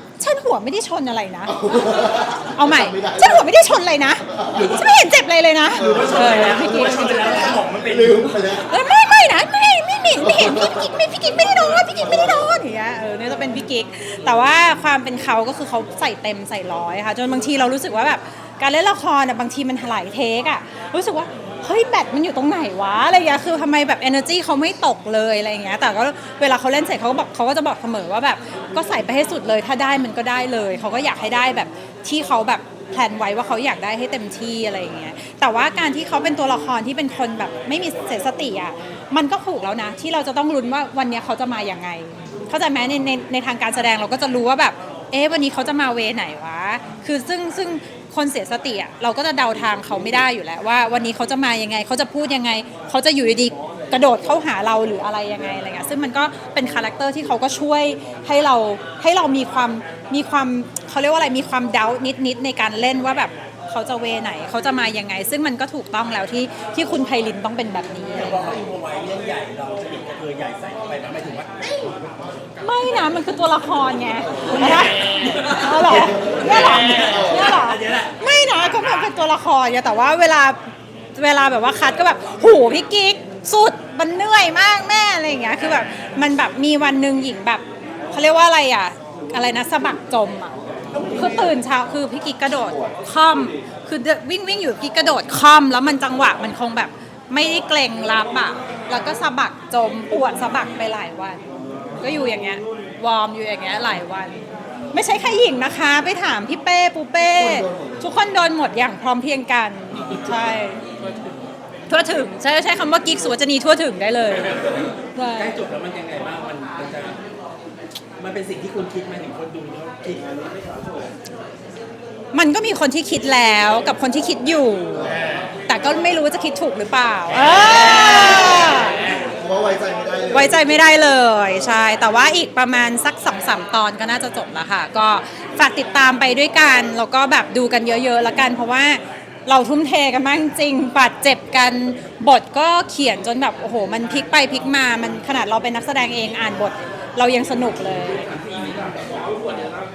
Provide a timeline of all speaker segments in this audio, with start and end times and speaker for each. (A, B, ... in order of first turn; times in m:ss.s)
0:00.2-0:01.7 A
0:01.4-0:03.4 B
0:02.6-0:07.6 A
0:04.3-0:04.7 B
0:04.5-0:04.9 C
0:05.7-0:08.6 C
0:05.7-0:08.7 B
0:08.7-1:08.6 A
0:10.2-0:10.9 B
0:12.0-0:12.4 B
1:08.1-1:11.6 C
1:12.6-1:20.6 A
1:14.2-1:14.7 B
1:14.4-1:18.1 C
1:15.9-1:17.6 B
1:21.2-1:41.4 A
1:30.9-1:31.6 C
1:42.0-1:44.4 A
1:44.9-1:50.9 A
1:47.3-1:48.1 B
1:51.9-1:55.6 A
1:54.5-1:57.2 C
1:58.2-2:00.3 C
2:02.3-2:05.1 A
2:04.9-2:05.2 B
2:05.7-2:09.0 A
2:07.3-2:08.8 C
2:09.0-2:10.7 B
2:10.3-2:28.3 A
2:28.2-2:29.7 C